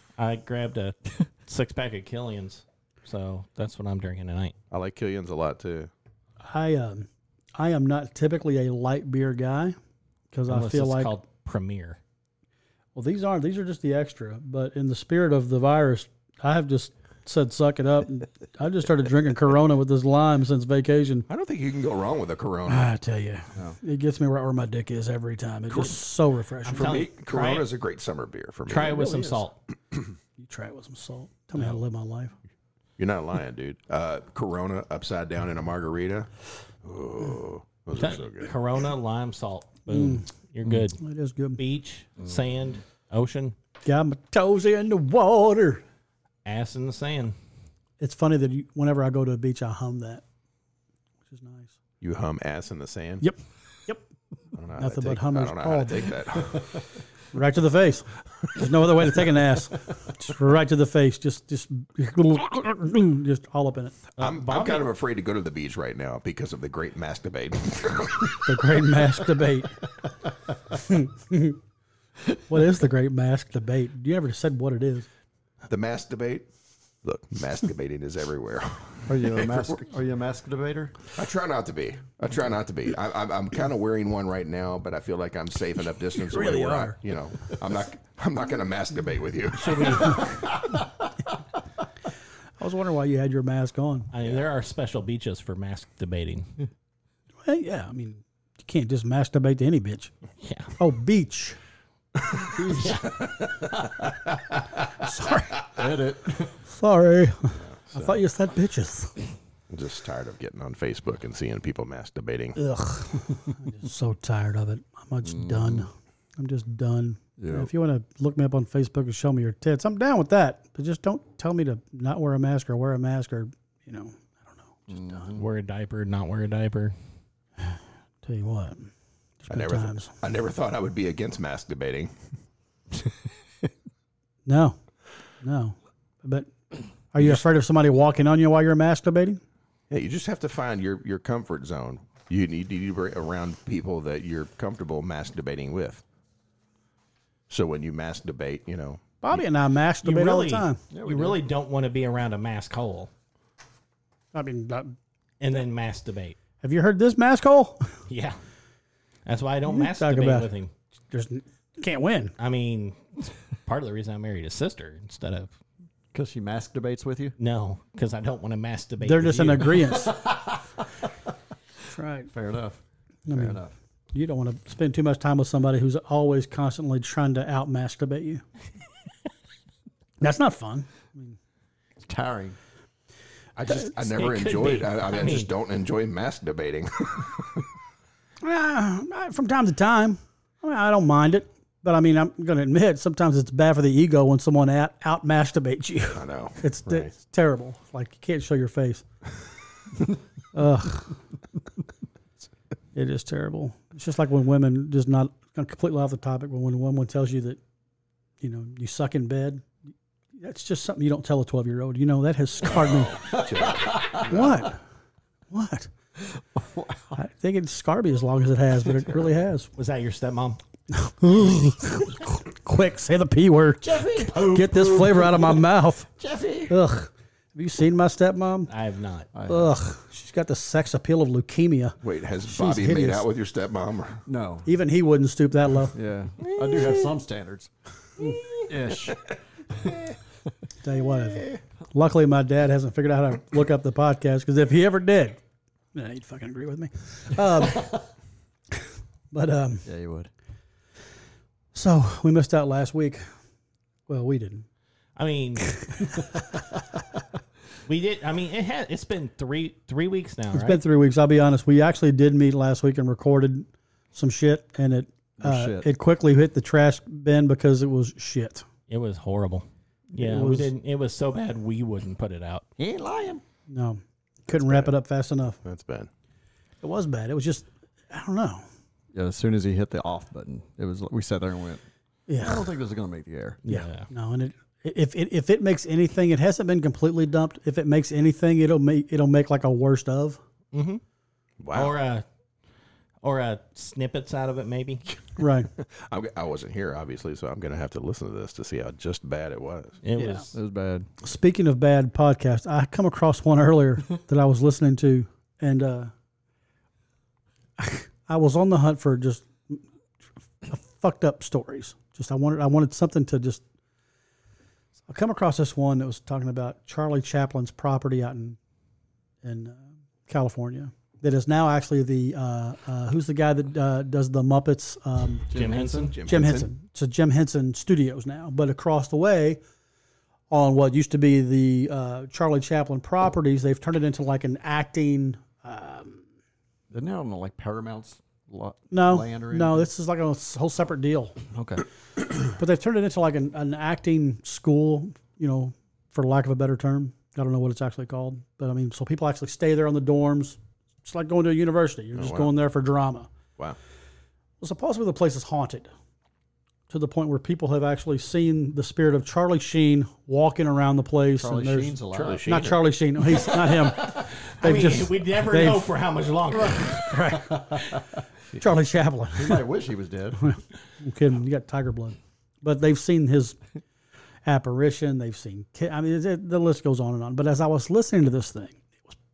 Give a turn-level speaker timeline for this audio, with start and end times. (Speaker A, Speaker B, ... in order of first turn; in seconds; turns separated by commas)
Speaker A: 0.2-4.6, Speaker B: 4.7-5.9, Speaker C: 6.4-9.8, Speaker C: 10.3-11.1, Speaker A: 10.5-12.0, Speaker C: 12.9-21.3, Speaker B: 21.3-22.9, Speaker C: 22.7-27.0, Speaker B: 25.7-26.0, Speaker A: 26.6-27.7, Speaker B: 26.7-29.2, Speaker A: 28.7-29.6, Speaker D: 29.0-29.4, Speaker C: 30.4-32.3, Speaker A: 31.6-31.8, Speaker B: 33.0-36.3, Speaker B: 36.8-38.5, Speaker A: 37.9-41.0, Speaker C: 39.9-40.2, Speaker C: 41.0-41.6, Speaker A: 41.6-43.5, Speaker C: 43.8-45.8, Speaker A: 46.5-47.4, Speaker C: 48.0-50.2, Speaker C: 51.3-51.8, Speaker B: 52.0-53.2, Speaker C: 53.2-54.0, Speaker B: 54.6-56.7, Speaker C: 54.7-56.2, Speaker C: 57.3-64.0, Speaker A: 64.2-64.9, Speaker B: 64.2-68.6, Speaker C: 68.5-69.7, Speaker C: 70.7-71.6, Speaker C: 72.5-75.1, Speaker B: 75.7-76.5, Speaker B: 77.0-79.8, Speaker D: 79.1-81.0, Speaker B: 81.1-90.4, Speaker C: 86.2-87.0, Speaker A: 89.5-90.4, Speaker C: 92.6-94.1, Speaker A: 94.1-96.5, Speaker C: 97.4-100.1, Speaker A: 100.4-100.7, Speaker C: 100.8-101.6, Speaker D: 102.5-103.0, Speaker A: 102.8-103.1, Speaker C: 105.0-105.7, Speaker D: 105.7-106.6, Speaker C: 106.7-109.2, Speaker B: 107.6-108.2, Speaker B: 109.7-112.6, Speaker C: 112.6-125.3, Speaker D: 115.2-115.9, Speaker D: 117.4-117.7, Speaker D: 124.9-125.5, Speaker A: 125.4-127.0, Speaker C: 127.7-130.1, Speaker B: 129.5-132.1, Speaker C: 134.5-134.8, Speaker C: 135.4-136.5, Speaker C: 137.1-139.4, Speaker B: 139.9-146.0, Speaker B: 147.5-149.4, Speaker C: 149.2-150.8, Speaker A: 150.0-153.1, Speaker D: 150.9-151.4, Speaker C: 154.3-154.9, Speaker A: 155.4-156.4, Speaker C: 156.6-157.9, Speaker A: 158.1-158.4, Speaker A: 159.3-160.7, Speaker C: 159.7-160.5, Speaker C: 161.1-162.3, Speaker A: 162.4-163.1, Speaker A: 163.6-165.6, Speaker D: 166.1-167.4, Speaker A: 167.4-170.0, Speaker C: 169.0-170.2, Speaker D: 169.9-170.8, Speaker C: 171.9-172.3, Speaker D: 172.3-172.8, Speaker C: 173.3-173.6, Speaker D: 173.3-173.7, Speaker C: 174.1-178.4, Speaker C: 180.2-181.4, Speaker D: 182.0-182.6, Speaker B: 183.6-187.7, Speaker A: 184.0-185.5, Speaker C: 188.4-199.1, Speaker B: 196.1-197.1, Speaker C: 200.5-201.2, Speaker C: 202.9-207.6, Speaker C: 208.4-209.7, Speaker C: 210.4-213.4, Speaker B: 212.7-214.6, Speaker D: 213.2-214.4, Speaker C: 214.2-214.8, Speaker C: 215.5-215.9, Speaker D: 216.4-217.2, Speaker C: 217.2-219.7, Speaker A: 219.8-220.6, Speaker C: 220.9-226.1, Speaker D: 223.8-225.7, Speaker D: 226.2-226.8, Speaker C: 226.7-228.7, Speaker A: 228.7-229.3, Speaker D: 229.3-229.8, Speaker C: 229.5-233.3, Speaker B: 232.0-234.2, Speaker D: 234.3-234.7, Speaker C: 234.7-235.9, Speaker D: 235.9-240.2, Speaker C: 240.8-245.4, Speaker C: 245.9-248.0, Speaker C: 249.3-249.9, Speaker D: 249.8-250.3, Speaker C: 251.7-253.2, Speaker C: 254.1-254.7, Speaker A: 255.2-255.8, Speaker C: 255.8-256.3, Speaker A: 257.9-260.8, Speaker C: 260.5-268.6, Speaker D: 265.4-265.9, Speaker A: 268.9-272.7, Speaker C: 270.2-270.7, Speaker D: 272.8-273.4, Speaker C: 273.7-275.6, Speaker B: 274.7-274.9, Speaker B: 275.6-276.1, Speaker C: 276.8-278.6, Speaker D: 279.1-281.8, Speaker C: 282.3-282.7, Speaker D: 282.4-283.6, Speaker A: 283.6-284.1, Speaker C: 283.7-290.4, Speaker A: 290.7-291.0, Speaker B: 291.6-292.0, Speaker A: 291.7-292.2, Speaker A: 293.2-295.1, Speaker C: 295.4-295.7, Speaker B: 295.9-300.0, Speaker A: 300.0-300.5, Speaker C: 300.2-300.5, Speaker D: 300.5-301.1, Speaker C: 301.2-306.1, Speaker C: 307.8-309.8, Speaker C: 310.7-313.6, Speaker C: 315.1-318.6, Speaker C: 319.4-325.5, Speaker D: 325.5-326.2, Speaker A: 325.5-326.1, Speaker B: 326.1-326.7, Speaker C: 326.2-329.6, Speaker C: 330.5-336.2, Speaker D: 336.9-339.9, Speaker C: 338.9-341.4, Speaker D: 341.5-341.8, Speaker C: 342.6-353.3, Speaker B: 352.2-352.5, Speaker C: 354.6-355.9, Speaker C: 356.9-365.9, Speaker D: 361.4-362.5, Speaker B: 362.1-362.8, Speaker A: 364.5-367.2, Speaker C: 366.7-368.0, Speaker D: 367.4-368.1, Speaker C: 368.6-369.7, Speaker D: 369.3-370.5, Speaker C: 370.4-373.6, Speaker C: 374.5-379.2